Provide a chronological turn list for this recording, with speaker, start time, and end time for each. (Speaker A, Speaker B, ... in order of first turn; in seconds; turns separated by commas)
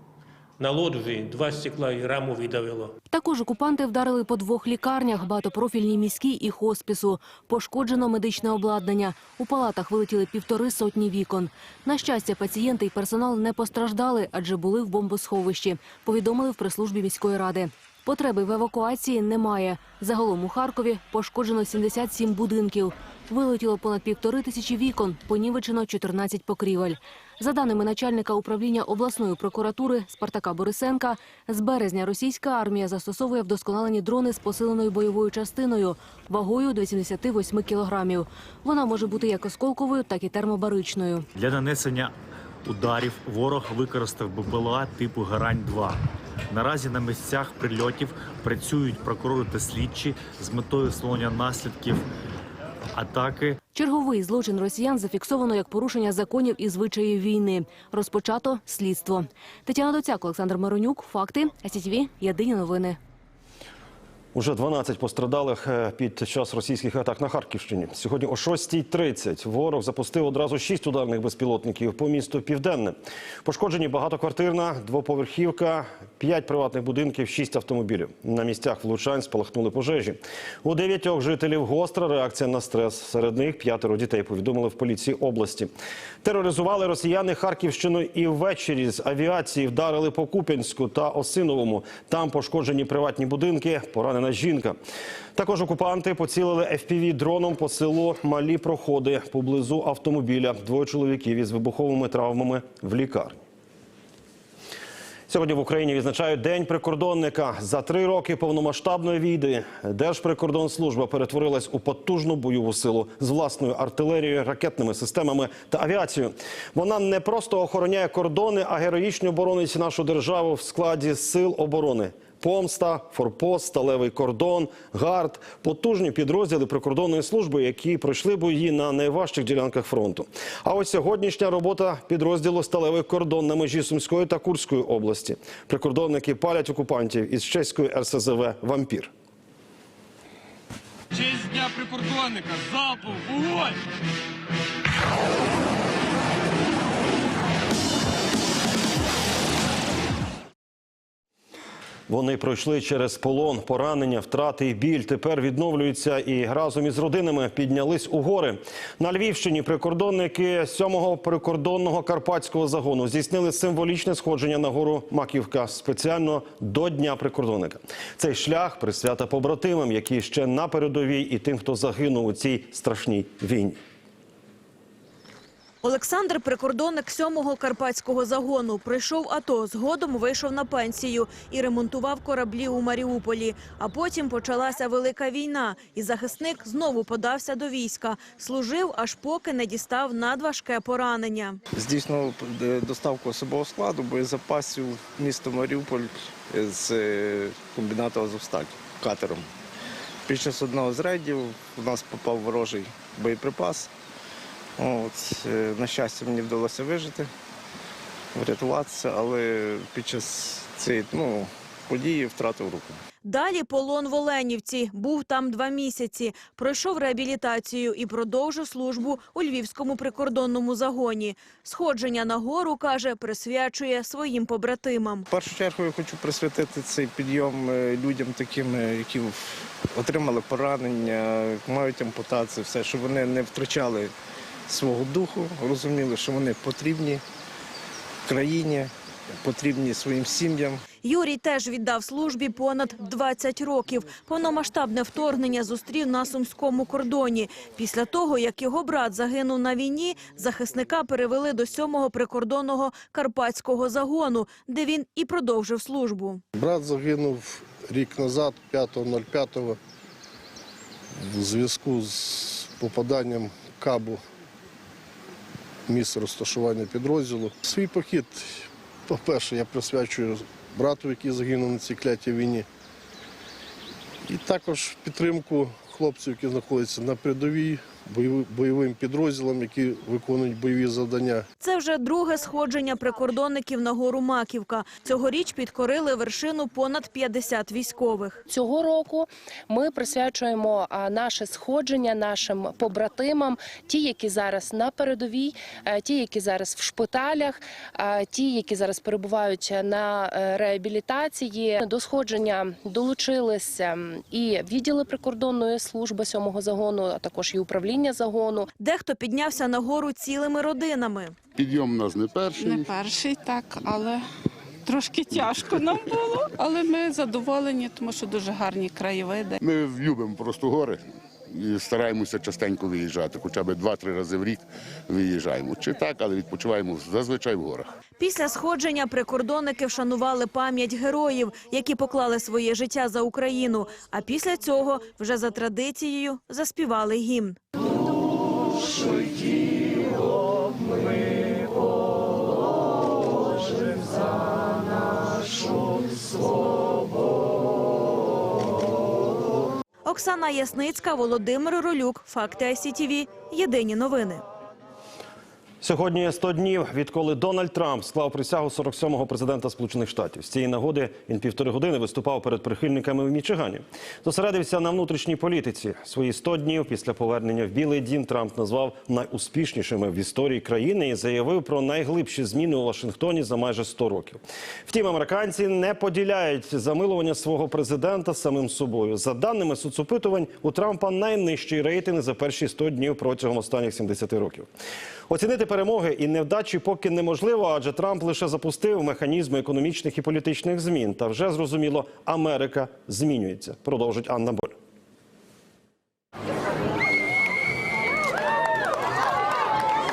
Speaker A: 0.6-3.0, Speaker B: 3.1-41.3, Speaker C: 41.3-42.1, Speaker C: 42.6-52.1, Speaker C: 52.9-53.6, Speaker B: 53.7-63.0, Speaker D: 64.3-85.7, Speaker D: 86.2-94.8, Speaker D: 95.4-103.4, Speaker D: 105.3-139.1, Speaker E: 141.1-143.8, Speaker D: 152.1-173.8, Speaker F: 175.8-191.6, Speaker G: 191.8-199.5, Speaker G: 200.3-203.9, Speaker G: 204.8-207.3, Speaker G: 208.3-213.0, Speaker F: 213.2-225.2, Speaker G: 225.3-234.1, Speaker G: 234.7-237.2, Speaker G: 238.2-240.8, Speaker F: 241.0-256.4, Speaker H: 256.6-259.8, Speaker H: 261.2-264.2, Speaker H: 265.9-272.7, Speaker H: 274.2-281.4, Speaker F: 281.6-288.4, Speaker I: 288.5-308.7, Speaker F: 308.8-311.4, Speaker J: 311.6-312.9, Speaker K: 312.6-314.2, Speaker K: 314.9-319.6, Speaker J: 319.6-327.9, Speaker F: 328.2-337.6, Speaker F: 350.1-354.4, Speaker D: 355.8-384.7, Speaker D: 385.3-394.8